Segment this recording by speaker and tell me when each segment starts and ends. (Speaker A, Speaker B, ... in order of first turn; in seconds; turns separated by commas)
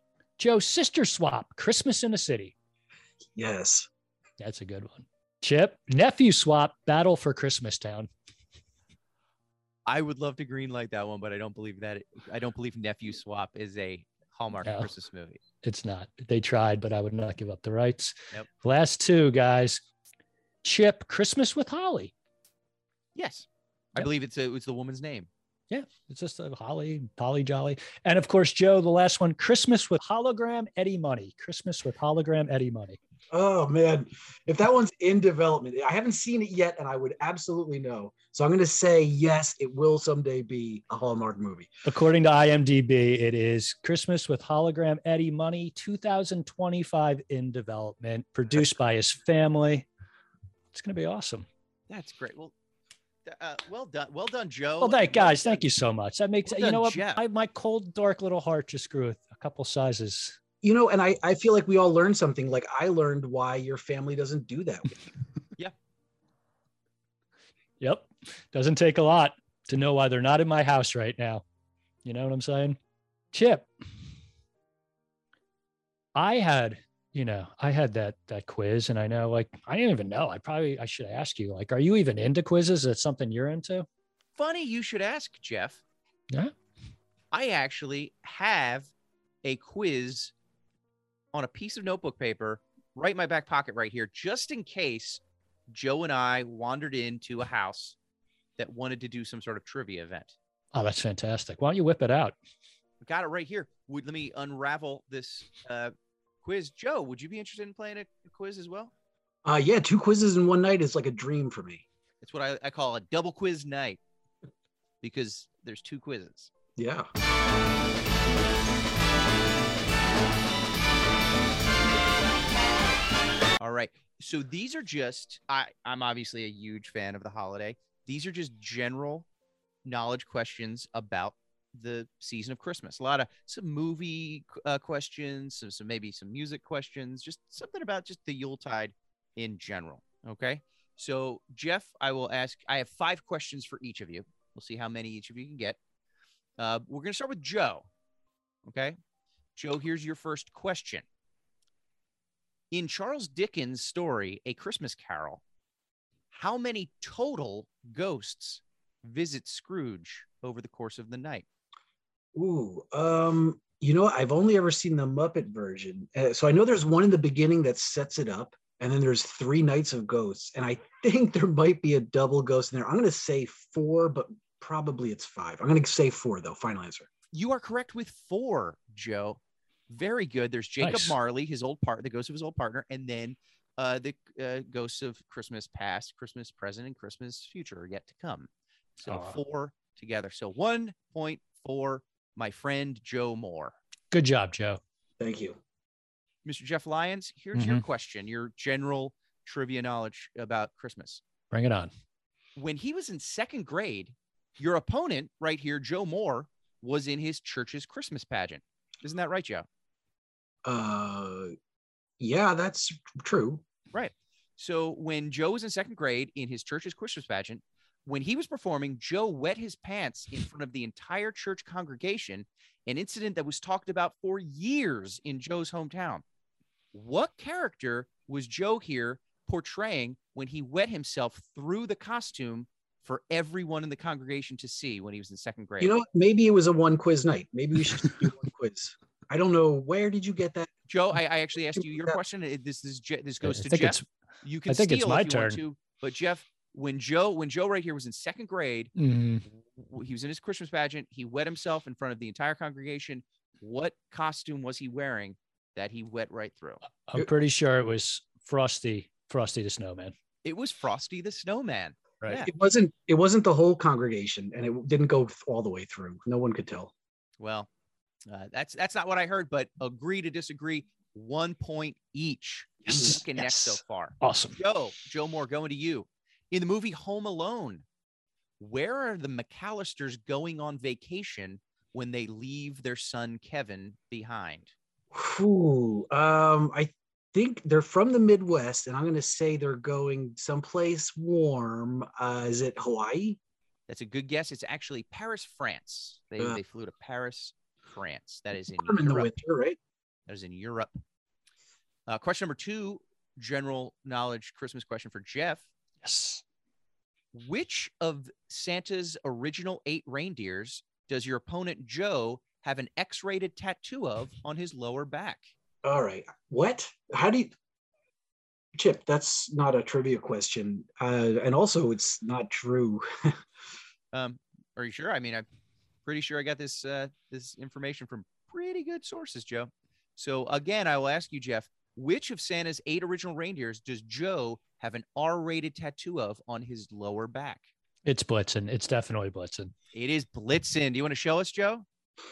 Speaker A: 0.4-2.5, Speaker B: 3.4-3.9, Speaker A: 4.4-8.1, Speaker C: 9.9-15.4, Speaker A: 14.7-14.9, Speaker A: 15.6-19.8, Speaker A: 20.6-22.1, Speaker C: 23.1-25.3, Speaker A: 25.7-33.0, Speaker B: 33.3-41.7, Speaker A: 41.9-49.9, Speaker A: 50.7-51.5, Speaker C: 51.9-52.5, Speaker C: 53.3-55.6, Speaker A: 54.8-60.4, Speaker C: 56.5-57.2, Speaker B: 60.6-65.0, Speaker A: 67.8-71.4, Speaker A: 72.0-72.8, Speaker A: 73.3-73.7, Speaker A: 76.2-83.9, Speaker C: 84.4-85.8, Speaker C: 87.3-88.9, Speaker C: 89.4-90.3, Speaker C: 91.3-98.0, Speaker C: 98.6-100.3, Speaker A: 100.7-102.4, Speaker C: 103.0-108.9, Speaker B: 109.5-111.8, Speaker C: 112.2-114.0, Speaker C: 115.0-116.5, Speaker B: 116.8-117.1, Speaker C: 123.6-129.3, Speaker C: 129.8-145.8, Speaker C: 146.6-147.9, Speaker C: 148.7-149.0, Speaker C: 149.6-151.0, Speaker C: 152.7-155.4, Speaker C: 156.3-161.4, Speaker B: 162.3-177.1, Speaker C: 177.3-193.8, Speaker A: 180.8-181.2, Speaker A: 189.1-189.4, Speaker A: 194.1-194.8, Speaker B: 195.2-195.6, Speaker C: 196.4-201.2, Speaker A: 197.6-197.8, Speaker A: 201.5-201.9, Speaker C: 202.6-209.7, Speaker B: 210.7-211.5, Speaker B: 212.2-213.6, Speaker C: 213.9-226.2, Speaker C: 226.9-236.0, Speaker B: 235.8-240.7, Speaker C: 240.9-248.9, Speaker B: 241.8-242.2, Speaker A: 243.4-244.1, Speaker A: 244.7-245.6, Speaker A: 249.0-249.4, Speaker C: 249.5-256.8, Speaker A: 257.1-260.1, Speaker C: 260.4-262.5, Speaker B: 262.4-266.9, Speaker C: 267.4-267.7, Speaker C: 268.3-277.8, Speaker A: 272.9-274.6, Speaker C: 278.6-284.7, Speaker B: 285.1-293.4, Speaker C: 293.9-299.3, Speaker B: 298.8-299.8, Speaker C: 300.3-300.9, Speaker C: 302.1-305.7, Speaker A: 306.0-306.4, Speaker C: 307.3-315.5, Speaker B: 315.8-317.5, Speaker B: 318.8-323.4, Speaker C: 324.1-325.5, Speaker C: 326.1-337.7, Speaker A: 338.1-339.7, Speaker C: 339.9-341.9